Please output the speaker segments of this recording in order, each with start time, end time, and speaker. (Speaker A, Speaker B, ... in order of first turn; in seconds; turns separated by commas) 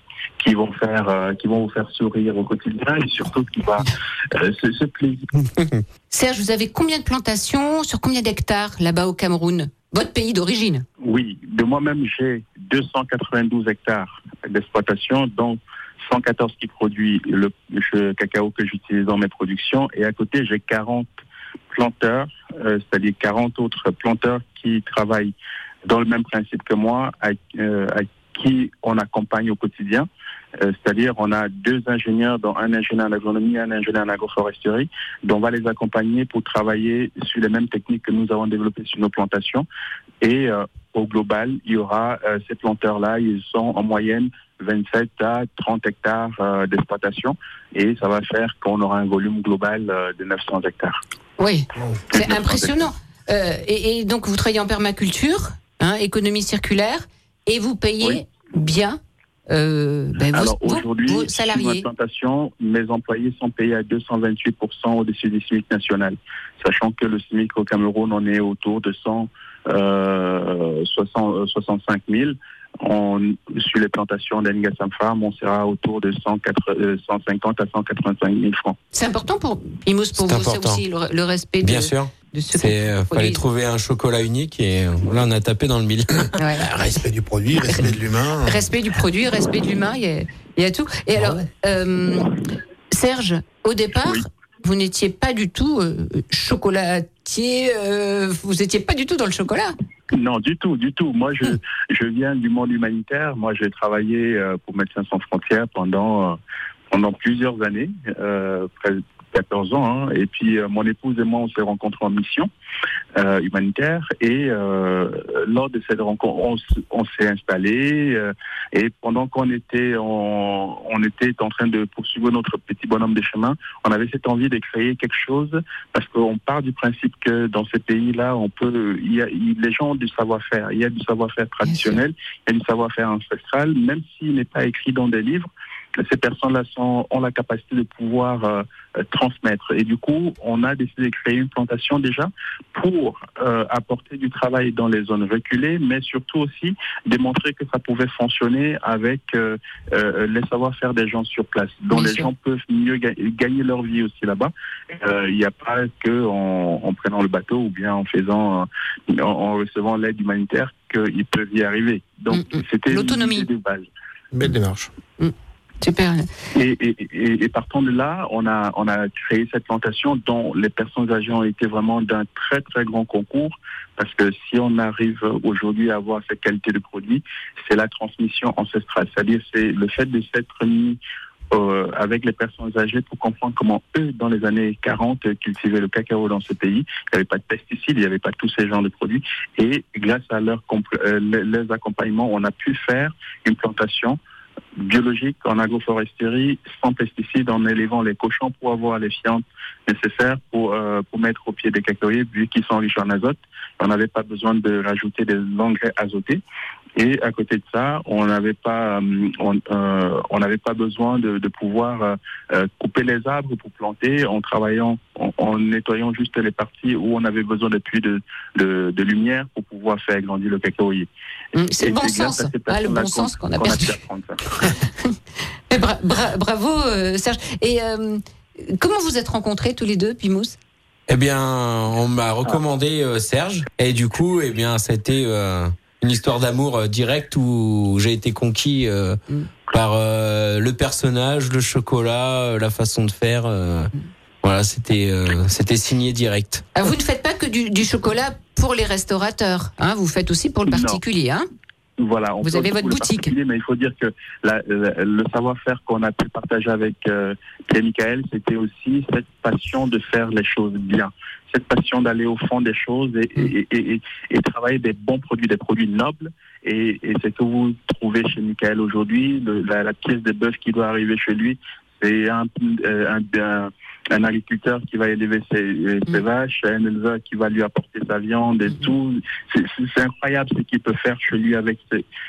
Speaker A: 0.4-5.3, Speaker B: 5.5-5.8, Speaker C: 6.1-10.8, Speaker A: 11.0-21.1, Speaker A: 21.7-30.1, Speaker A: 30.6-39.7, Speaker A: 40.2-51.0, Speaker C: 51.4-61.9, Speaker A: 52.1-52.7, Speaker A: 60.3-78.8, Speaker C: 78.9-83.4, Speaker B: 80.2-80.8, Speaker B: 81.6-86.3, Speaker C: 86.3-86.7, Speaker D: 86.6-88.6, Speaker C: 88.4-92.3, Speaker D: 91.2-91.4, Speaker C: 92.9-99.7, Speaker A: 100.1-106.4, Speaker A: 106.9-112.5, Speaker A: 113.1-163.9, Speaker C: 131.6-132.0, Speaker C: 151.9-152.3, Speaker C: 162.3-163.5, Speaker D: 164.3-164.9, Speaker C: 165.2-166.3, Speaker A: 166.5-181.0, Speaker A: 181.5-194.2, Speaker A: 194.8-206.4, Speaker A: 206.9-221.1, Speaker C: 221.5-224.0, Speaker A: 221.8-224.4, Speaker C: 224.6-225.2, Speaker C: 225.7-230.6, Speaker B: 231.1-243.9, Speaker B: 244.4-246.7, Speaker C: 246.7-251.5, Speaker A: 250.7-251.0, Speaker A: 252.0-282.0, Speaker C: 252.4-253.3